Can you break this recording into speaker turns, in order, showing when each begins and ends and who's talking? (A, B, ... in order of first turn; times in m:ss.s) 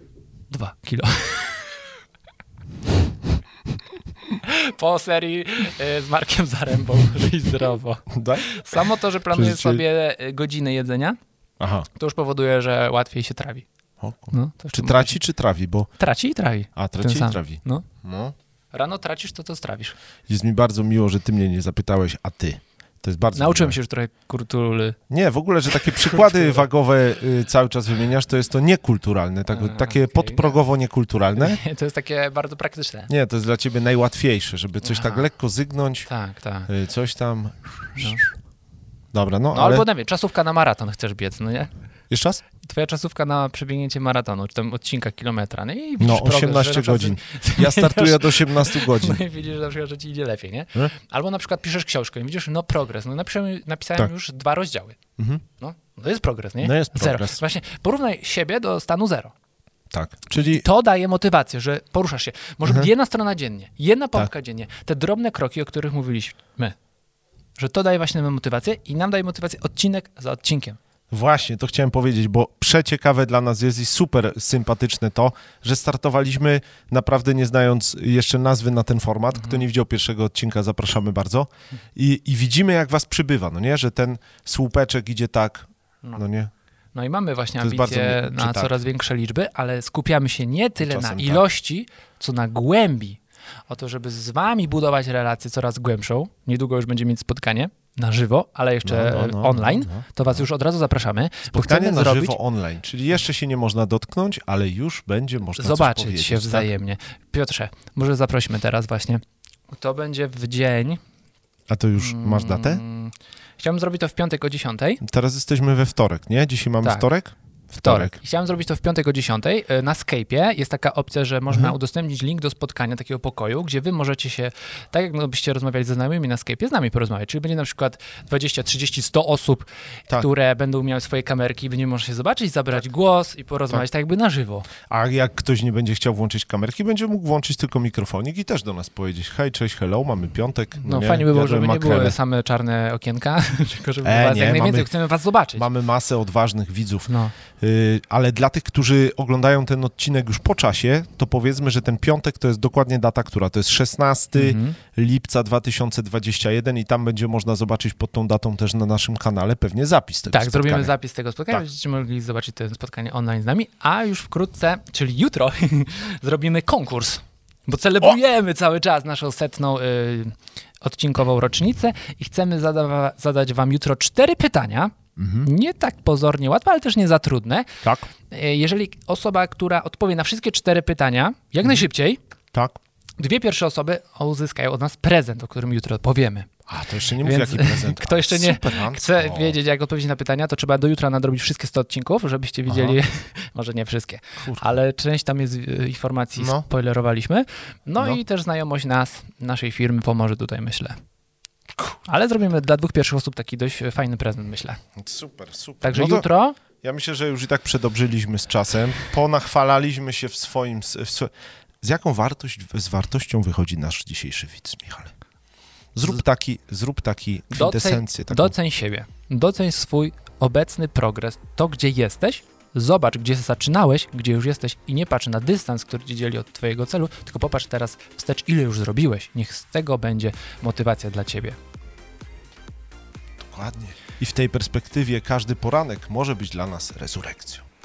0:00.5-0:01.6 A
0:04.4-0:11.2 A
0:08.1-0:08.6 B
0:09.3-0:09.8 B
0:11.6-0:11.9 B
0:11.9-0:13.6 A
0:14.0-0:15.9 B
0:14.3-0:15.2 A
0:16.0-0:17.8 A
0:16.8-0:18.3 B
0:18.7-0:19.9 A
0:20.3-0:23.8 B
0:23.3-0:25.0 A
0:25.1-0:31.6 B
0:25.7-0:26.6 A
0:29.5-0:30.6 A
0:31.4-0:33.1 A
0:33.1-0:36.1 B
0:34.8-0:35.3 A
0:36.1-0:36.7 A
0:36.7-0:38.3 B
0:38.0-0:38.2 A
0:39.1-0:39.8 B
0:39.5-0:41.7 A
0:42.1-0:42.4 B
0:42.6-0:55.0 A
0:46.0-0:49.2 B
0:55.2-0:55.4 B
0:55.6-0:59.3 A
0:56.6-0:57.4 B
0:59.9-1:00.6 B
1:00.4-1:06.7 A
1:07.6-1:10.8 A
1:11.1-1:26.5 B
1:19.3-1:19.6 A
1:26.9-1:42.4 A
1:27.6-1:28.8 B
1:30.8-1:31.4 B
1:38.8-1:40.1 B
1:41.5-1:46.7 B
1:45.6-1:51.0 A
1:51.7-1:52.8 B
1:52.0-1:55.0 A
1:55.0-1:58.2 B
1:57.8-2:14.7 A
2:01.5-2:01.7 B
2:14.9-2:22.2 B
2:20.8-2:25.7 A
2:24.0-2:24.9 B
2:25.6-2:40.9 B
2:27.1-2:27.4 A
2:34.3-2:34.8 A
2:40.3-2:57.8 A
2:55.2-2:55.5 B
2:57.8-2:58.1 B
2:58.3-3:02.2 A
3:02.5-3:02.8 B
3:03.2-3:06.5 A
3:06.7-3:09.6 B
3:07.2-3:21.0 A
3:12.7-3:13.0 B
3:14.4-3:14.7 B
3:16.4-3:16.6 B
3:22.0-3:24.8 A
3:25.0-3:26.3 B
3:25.8-3:26.6 A
3:26.8-3:35.1 B
3:35.9-3:38.5 B
3:37.5-3:51.6 A
3:53.4-3:57.6 B